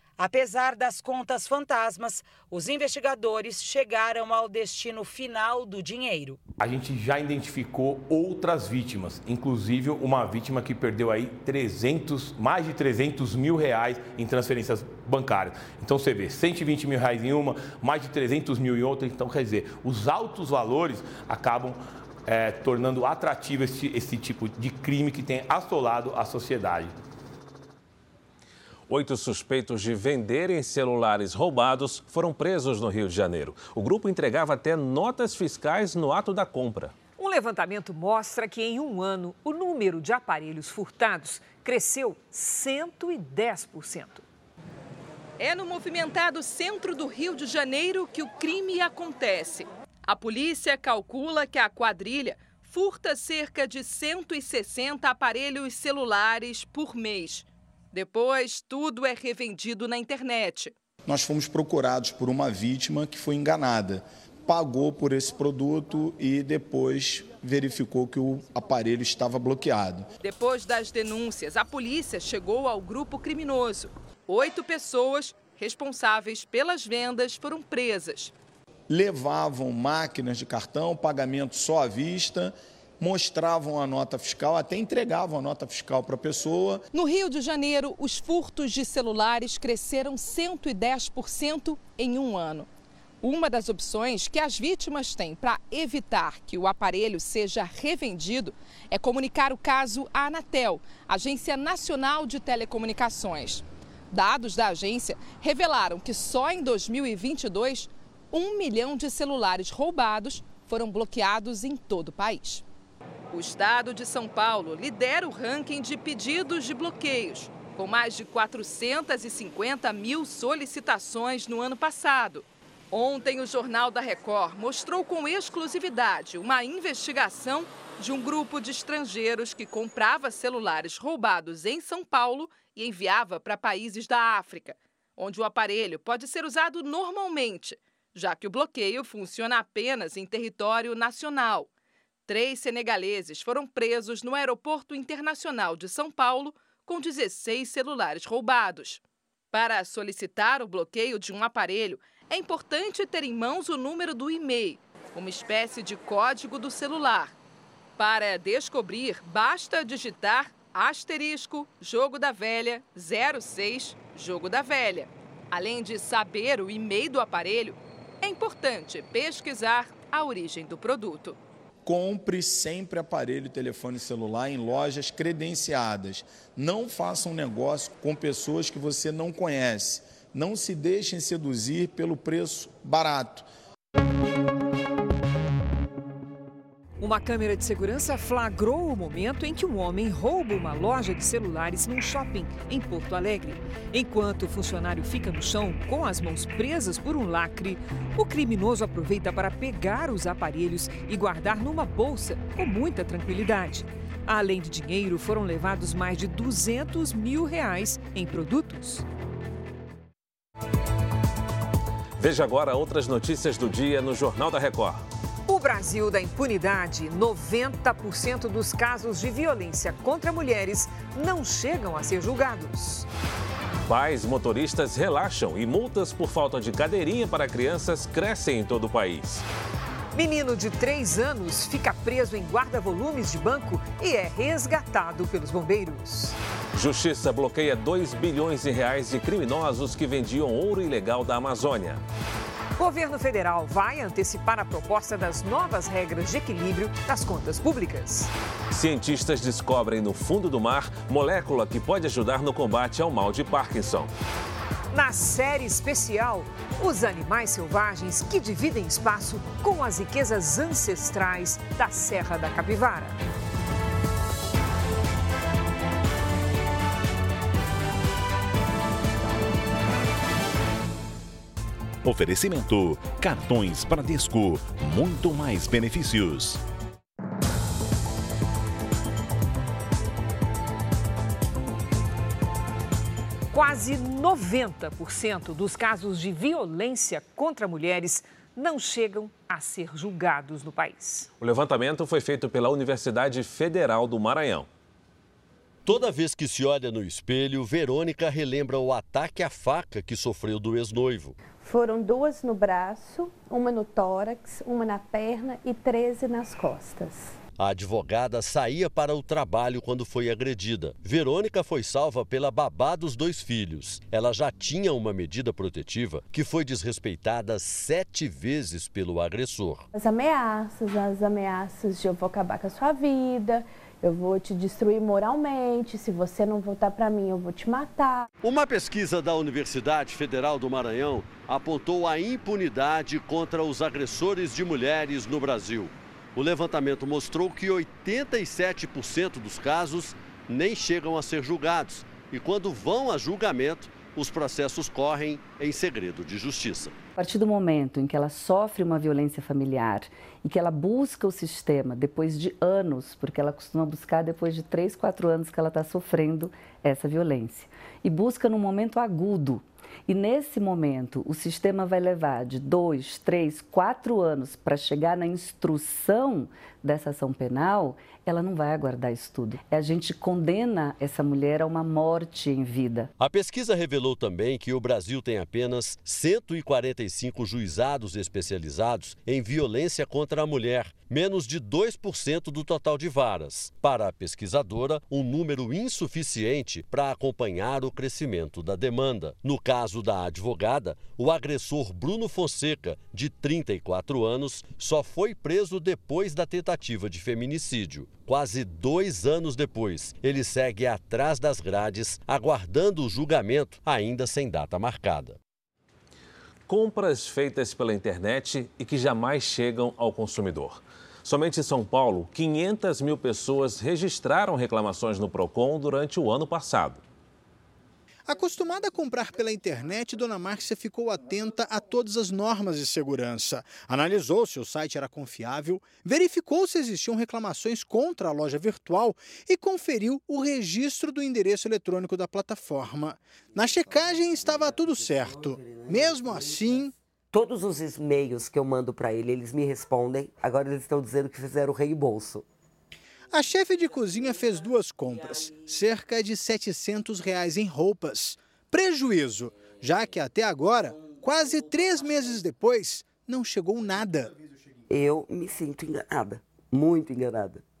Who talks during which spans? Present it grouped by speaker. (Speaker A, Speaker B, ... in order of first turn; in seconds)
Speaker A: 0.2-6.4
Speaker B: 6.6-26.9
Speaker C: 28.9-36.9, 212.2-215.0, 223.8-229.4, 236.7-242.0, 248.7-254.1, 291.4-294.7, 406.7-417.0
Speaker D: 37.2-44.2, 187.0-209.1, 215.5-223.1, 230.1-236.3, 242.8-248.3, 254.9-263.2, 283.5-291.3
Speaker E: 45.4-60.7, 70.2-78.3, 86.9-92.7, 93.2-112.6, 113.3-141.7, 142.3-157.3, 158.0-171.4
Speaker F: 61.0-70.1, 78.9-86.8, 171.8-183.5
Speaker G: 272.0-276.6
Speaker H: 295.8-301.3, 307.6-319.9, 328.4-346.9, 373.2-405.4
Speaker I: 301.6-307.4, 319.9-328.3
Speaker J: 347.2-373.1
Speaker K: 418.2-436.9, 443.3-454.3
Speaker L: 435.4-436.2, 437.3-442.4, 454.9-457.6